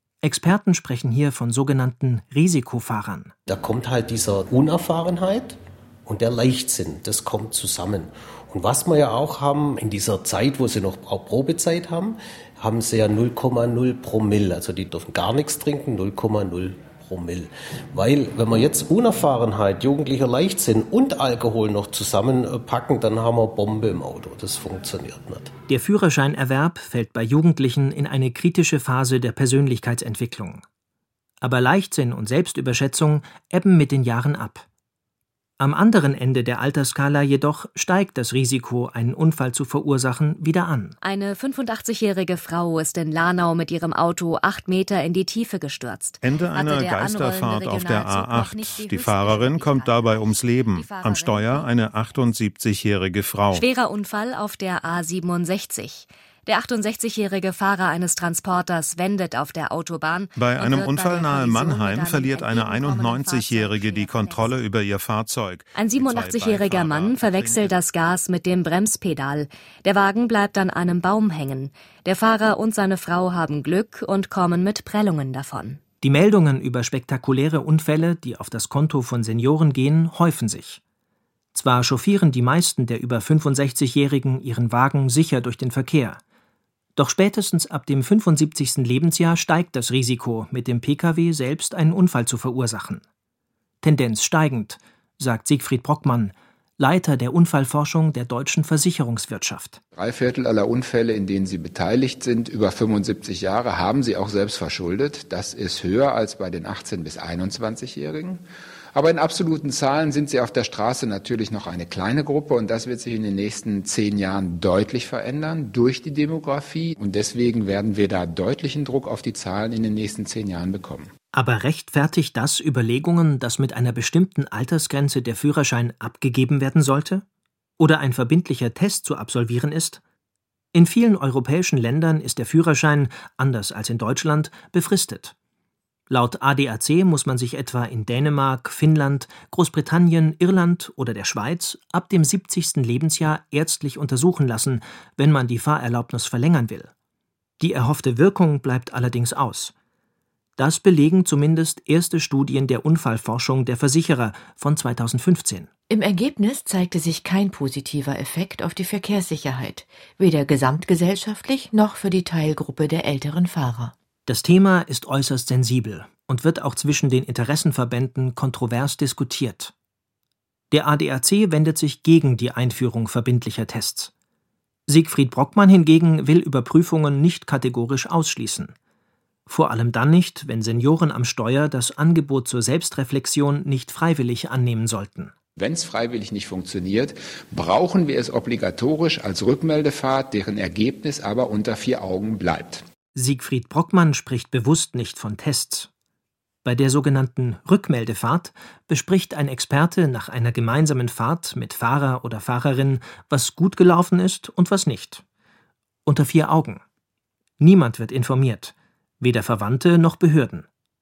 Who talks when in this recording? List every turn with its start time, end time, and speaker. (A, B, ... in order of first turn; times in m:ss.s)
0:00.2-0:03.3 A
0:03.5-0:25.5 B
0:25.7-0:30.6 A
0:31.4-0:34.7 A
0:35.6-0:41.0 A
0:41.0-0:51.7 C
0:46.2-0:53.6 D
0:53.5-1:04.6 C
1:00.4-1:07.9 D
1:05.7-1:15.8 C
1:16.0-1:20.8 A
1:21.5-1:26.2 A
1:27.0-1:33.0 A
1:33.8-1:39.8 A
1:40.0-2:01.1 E
2:01.3-2:07.2 A
2:07.8-2:10.0 A
2:10.7-2:15.4 A
2:16.1-2:26.9 A
2:27.6-2:29.7 A
2:30.6-2:35.7 A
2:35.9-2:44.0 F
2:44.3-2:49.7 A
2:50.7-2:54.1 A
2:54.9-2:58.8 A
2:59.5-3:05.3 A
3:05.6-3:12.8 E
3:13.2-3:15.9 A
3:16.6-3:25.2 A
3:26.1-3:26.8 A
3:27.6-3:30.7 A